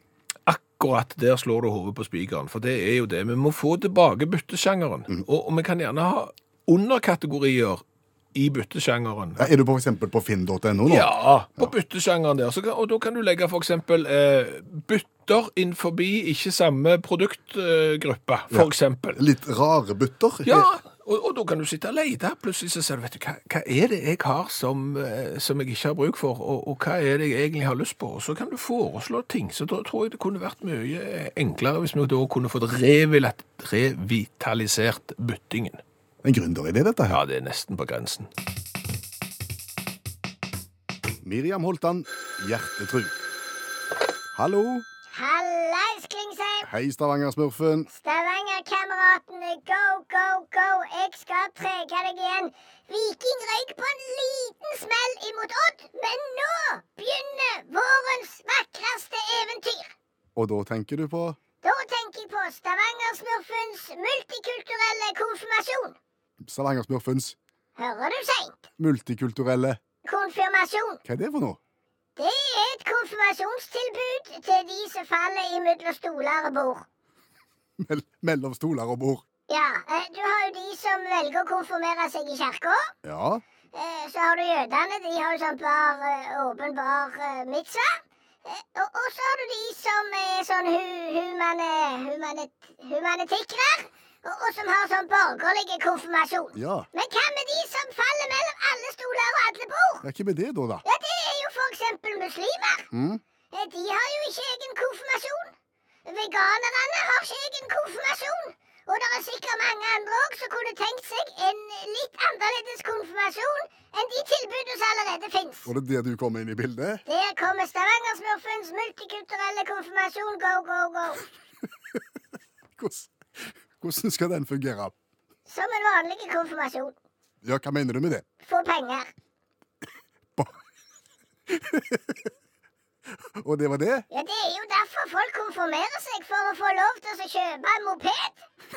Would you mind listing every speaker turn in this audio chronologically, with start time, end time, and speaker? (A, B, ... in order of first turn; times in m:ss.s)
0:00.5-0:07.8 A
0:08.4-0:09.5 A
0:09.4-0:11.7 B
0:10.9-0:19.2 A
0:18.5-0:20.7 B
0:20.4-0:35.8 A
0:36.2-0:37.2 B
0:37.1-0:38.3 A
0:41.2-0:43.1 B
0:44.3-0:44.9 B
0:45.1-0:46.7 C
0:46.6-0:47.9 B
0:47.9-0:59.9 C
1:00.4-1:01.4 B
1:01.6-1:06.0 C
1:06.4-1:07.4 B
1:07.8-1:08.7 C
1:08.8-1:09.8 B
1:10.0-1:11.0 C
1:11.0-1:11.6 B
1:12.2-1:16.9 C
1:17.8-1:19.2 B
1:19.5-1:22.9 C
1:23.0-1:23.4 B
1:23.7-1:40.1 C
1:36.6-1:36.9 B
1:40.0-1:40.8 B
1:40.8-1:42.9 C
1:42.9-1:43.2 B
1:43.5-1:45.6 C
1:46.1-1:55.7 C
1:55.7-1:57.0 B
1:57.1-2:01.2 C
2:02.8-2:04.9 B
2:05.5-2:07.0 C
2:07.4-2:08.2 B
2:08.4-2:09.1 C
2:11.5-2:12.2 B
2:13.4-2:14.1 B
2:14.1-2:18.4 C